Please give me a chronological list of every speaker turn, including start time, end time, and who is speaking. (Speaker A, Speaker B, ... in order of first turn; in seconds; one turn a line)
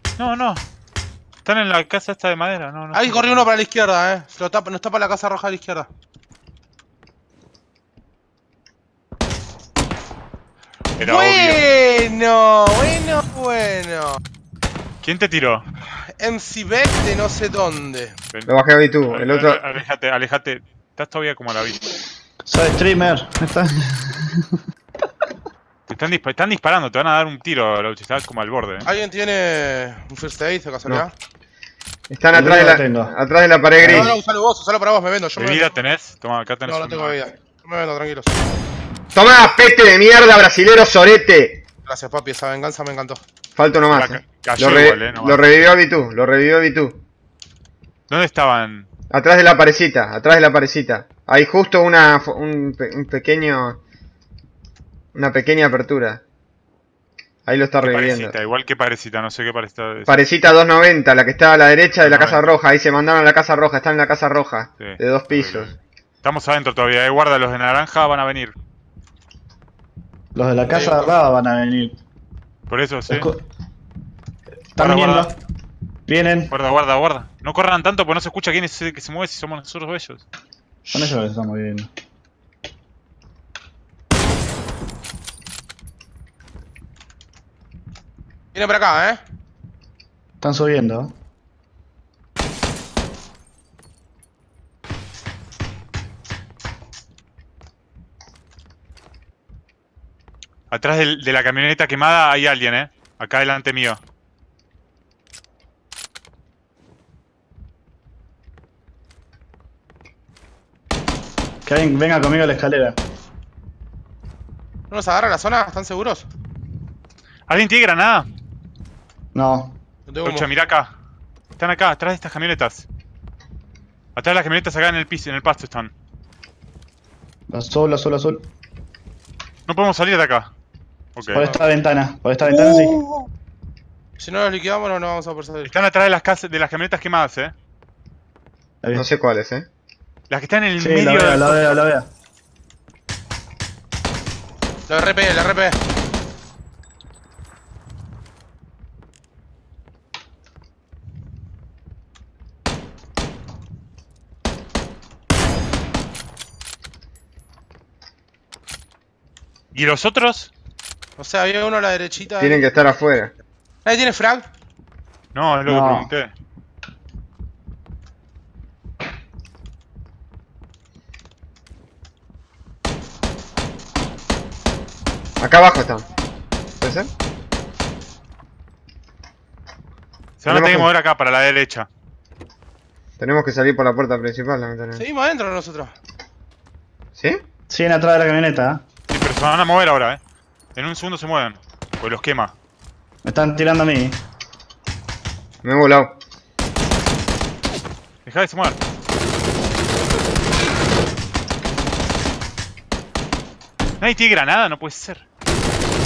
Speaker A: 0.2-0.6
Speaker A: 1.4-3.5
Speaker B: 2.9-5.9
Speaker A: 11.0-11.6
Speaker B: 11.0-14.2
Speaker A: 15.0-15.6
Speaker B: 16.2-18.1
Speaker C: 18.5-19.6
Speaker A: 19.1-21.8
Speaker D: 22.4-24.6
Speaker A: 25.9-28.9
Speaker B: 28.8-31.1
Speaker C: 32.1-34.1
Speaker D: 32.3-33.1
Speaker B: 33.8-35.7
Speaker A: 35.3-37.2
Speaker B: 36.7-38.4
Speaker C: 39.1-41.6
Speaker B: 41.9-43.2
Speaker C: 43.5-47.0
Speaker A: 43.9-45.4
Speaker A: 48.1-48.9
Speaker C: 49.1-53.8
Speaker C: 55.1-56.2
Speaker C: 57.5-58.3
Speaker A: 57.8-60.3
Speaker C: 60.1-65.7
Speaker A: 62.0-62.6
Speaker A: 64.8-68.5
Speaker D: 70.3-72.0
Speaker B: 70.7-71.1
Speaker A: 72.7-73.3
Speaker D: 73.1-73.4
Speaker D: 74.7-75.3
Speaker A: 74.8-75.3
Speaker D: 76.1-76.5
Speaker A: 76.5-80.2
Speaker D: 80.9-81.9
Speaker B: 88.5-89.2
Speaker D: 90.4-91.1
Speaker A: 100.7-104.0
Speaker D: 111.6-113.0
Speaker B: 114.9-116.3
Speaker A: 117.5-118.3
Speaker D: 119.3-119.7
Speaker B: 120.1-120.5
Speaker A: 120.2-120.9
Speaker A: 121.6-122.8
Speaker A: 124.2-125.9
Speaker D: 127.5-128.4
Speaker A: 129.7-130.5
Speaker A: 131.2-131.5
Speaker B: 131.3-131.6
Speaker D: 131.3-133.0
Speaker B: 132.4-133.3
Speaker B: 134.2-135.7
Speaker A: 135.6-137.5
Speaker C: 138.9-139.7
Speaker A: 140.3-141.8
Speaker D: 140.8-142.1
Speaker B: 144.9-145.8
Speaker A: 159.7-160.5
Speaker B: 161.2-162.6
Speaker C: 162.4-163.3
Speaker B: 163.8-164.4
Speaker A: 165.3-166.3
Speaker D: 165.7-166.1
Speaker C: 175.4-176.1
Speaker C: 176.8-177.1
Speaker A: 180.4-181.9
Speaker C: 180.5-180.9
Speaker C: 183.2-185.0
Speaker B: 184.9-185.9
Speaker D: 187.7-188.8
Speaker A: 189.1-190.2
Speaker A: 190.7-192.5
Speaker D: 193.2-194.2
Speaker C: 195.6-196.2
Speaker A: 198.2-198.8
Speaker A: 204.0-205.2